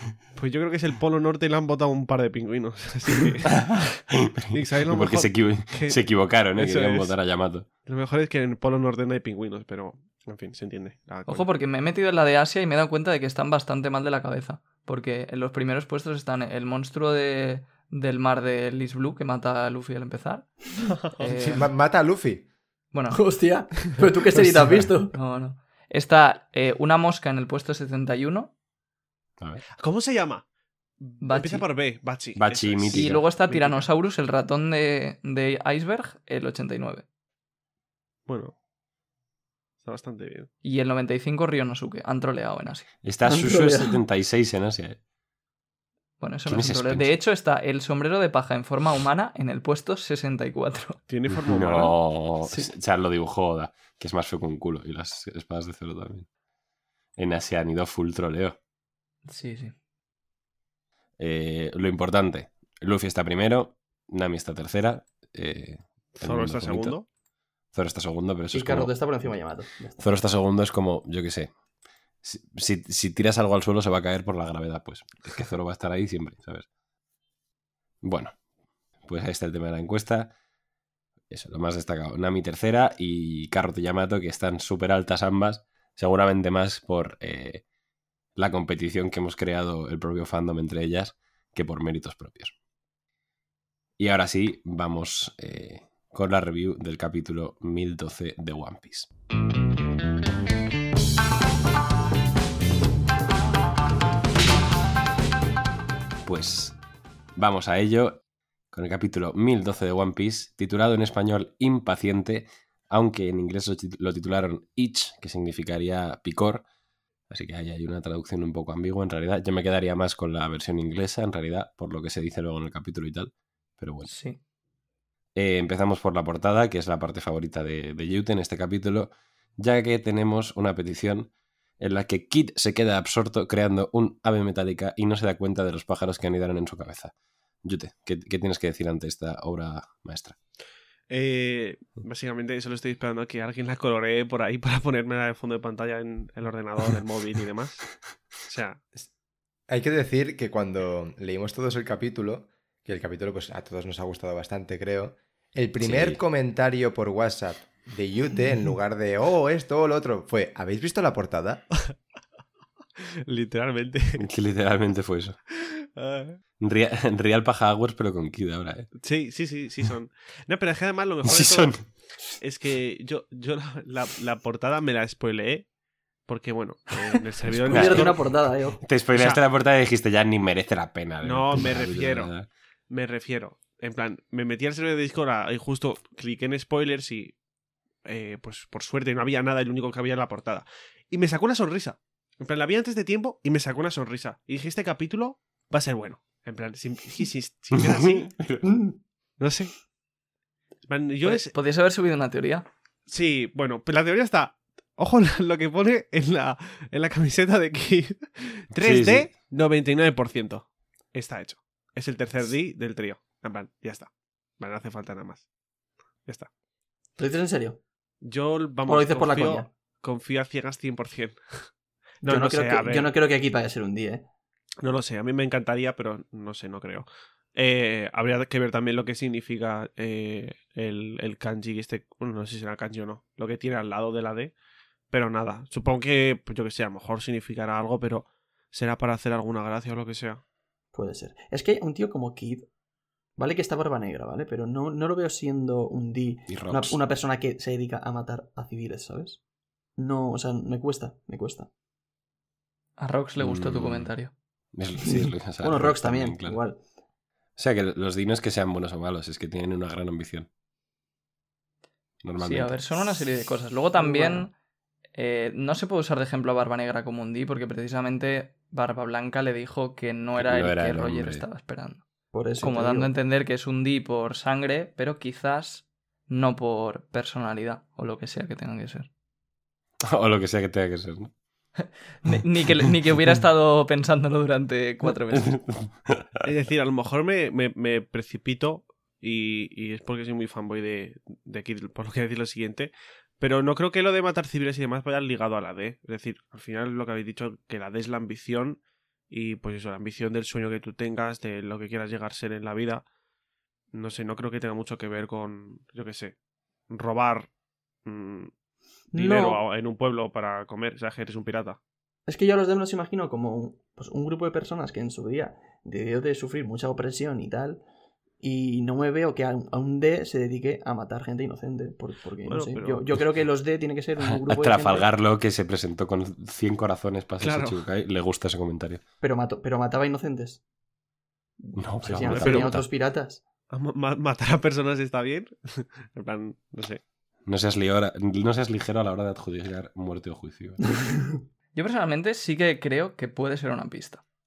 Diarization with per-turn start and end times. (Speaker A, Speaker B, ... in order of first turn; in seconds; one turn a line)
Speaker A: 0.3-3.7
Speaker B: 3.5-7.7
Speaker A: 4.5-6.0
Speaker A: 6.5-7.1
Speaker A: 7.8-11.5
Speaker C: 11.3-20.6
Speaker A: 20.9-21.3
Speaker C: 21.2-21.7
Speaker D: 21.3-22.4
Speaker C: 22.9-23.2
Speaker E: 23.1-25.1
Speaker C: 25.1-28.5
Speaker A: 29.8-30.4
Speaker A: 31.0-33.9
Speaker C: 31.2-31.6
Speaker B: 32.4-33.2
Speaker C: 32.9-37.0
Speaker A: 38.2-38.5
Speaker A: 39.8-40.5
Speaker C: 40.6-42.9
Speaker B: 43.0-45.0
Speaker E: 43.2-44.0
Speaker C: 46.2-51.0
Speaker B: 46.5-47.1
Speaker A: 51.1-52.0
Speaker B: 51.3-56.3
Speaker B: 57.2-58.6
Speaker C: 59.3-59.7
Speaker B: 61.2-67.0
Speaker A: 66.2-67.0
Speaker B: 67.7-69.3
Speaker E: 68.5-70.0
Speaker B: 70.0-71.5
Speaker B: 72.2-76.7
Speaker B: 78.0-78.3
Speaker B: 79.1-80.3
Speaker B: 81.3-87.6
Speaker B: 88.3-92.5
Speaker B: 94.0-99.1
Speaker B: 106.2-106.8
Speaker B: 107.4-108.2
Speaker B: 108.7-116.7
Speaker B: 117.3-124.1
Speaker C: 124.0-124.4
Speaker B: 125.3-137.1
Speaker B: 137.6-140.3
Speaker A: 141.1-147.9
Speaker A: 148.4-148.8
Speaker D: 149.7-161.6
Speaker B: 155.8-156.2
Speaker A: 163.0-164.2
Speaker B: 164.2-165.4
Speaker A: 165.9-166.4
Speaker B: 166.6-168.9
Speaker A: 169.0-171.9
Speaker B: 171.2-171.8
Speaker A: 172.4-175.7
Speaker A: 176.2-178.3
Speaker B: 177.6-178.1
Speaker E: 177.6-178.8
Speaker B: 178.8-182.5
Speaker A: 179.1-179.4
Speaker A: 181.2-182.3
Speaker A: 182.9-187.3
Speaker A: 188.0-198.3
Speaker B: 197.7-198.7
Speaker A: 199.4-199.7
Speaker A: 200.9-201.5
Speaker C: 201.2-202.7
Speaker A: 203.1-215.4
Speaker B: 208.8-209.3
Speaker E: 217.2-217.8
Speaker A: 218.2-221.7
Speaker E: 218.8-219.7
Speaker A: 222.2-223.1
Speaker E: 222.2-224.3
Speaker A: 224.8-234.5
Speaker A: 235.1-240.4
Speaker E: 240.9-242.7
Speaker E: 243.4-249.4
Speaker B: 246.5-247.0
Speaker E: 250.0-251.7
Speaker C: 253.0-254.3
Speaker B: 253.4-254.1
Speaker B: 254.7-256.6
Speaker E: 255.0-256.8
Speaker B: 257.6-260.5
Speaker B: 262.2-262.8
Speaker C: 262.4-264.5
Speaker E: 264.0-264.5
Speaker C: 265.1-272.0
Speaker B: 270.3-271.4
Speaker E: 272.3-273.1
Speaker C: 272.6-279.1
Speaker B: 280.0-281.3
Speaker C: 282.2-285.6
Speaker B: 285.3-286.4
Speaker A: 286.4-303.1
Speaker A: 303.9-306.3
Speaker A: 306.9-307.5
Speaker A: 308.0-308.5
Speaker E: 309.1-309.6
Speaker A: 309.1-311.8
Speaker E: 312.3-317.8
Speaker E: 318.4-325.1
Speaker A: 322.4-323.0
Speaker B: 324.2-329.0
Speaker A: 327.4-327.8
Speaker E: 329.2-330.6
Speaker E: 331.6-333.4
Speaker B: 331.8-332.8
Speaker A: 332.2-332.8
Speaker A: 333.7-337.0
Speaker B: 337.5-340.9
Speaker E: 340.9-341.4
Speaker C: 341.7-344.2